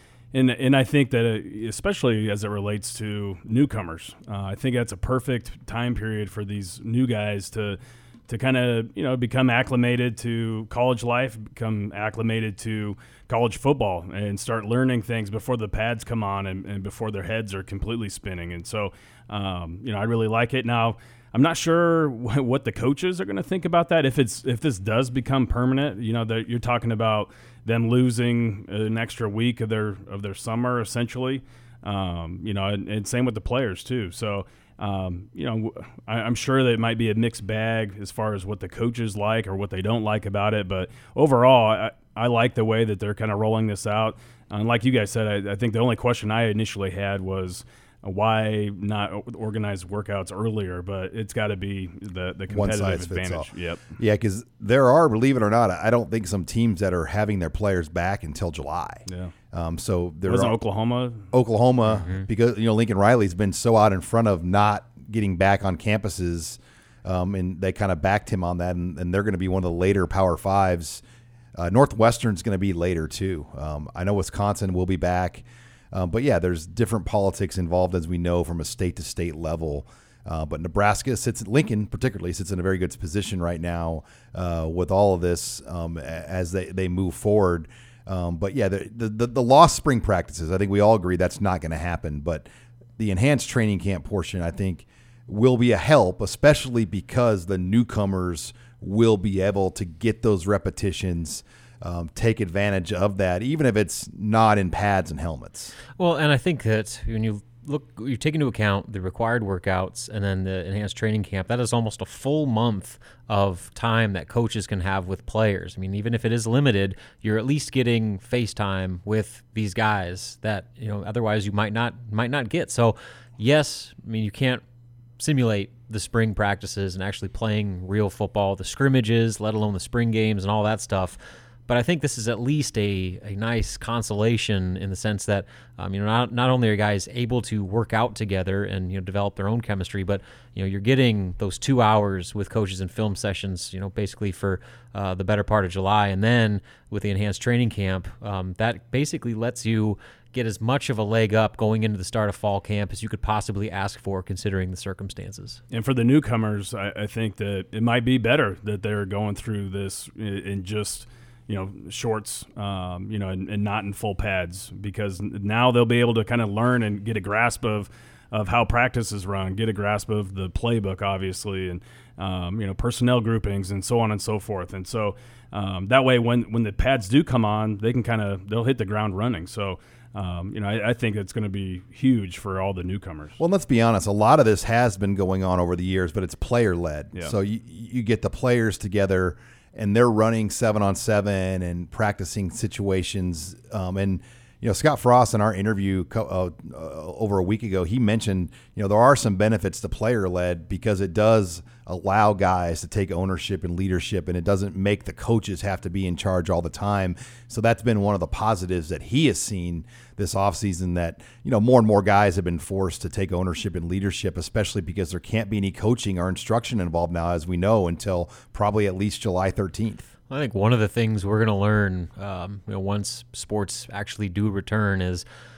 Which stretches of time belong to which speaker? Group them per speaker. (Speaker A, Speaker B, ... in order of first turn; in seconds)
Speaker A: 0.3-53.8, 59.1-59.3, 60.3-61.2, 155.7-183.4
Speaker B: 52.5-60.6, 61.3-71.0, 71.6-92.5, 93.0-105.7, 183.4-220.1
Speaker C: 61.9-62.2, 106.0-124.6, 125.2-155.6, 220.3-225.2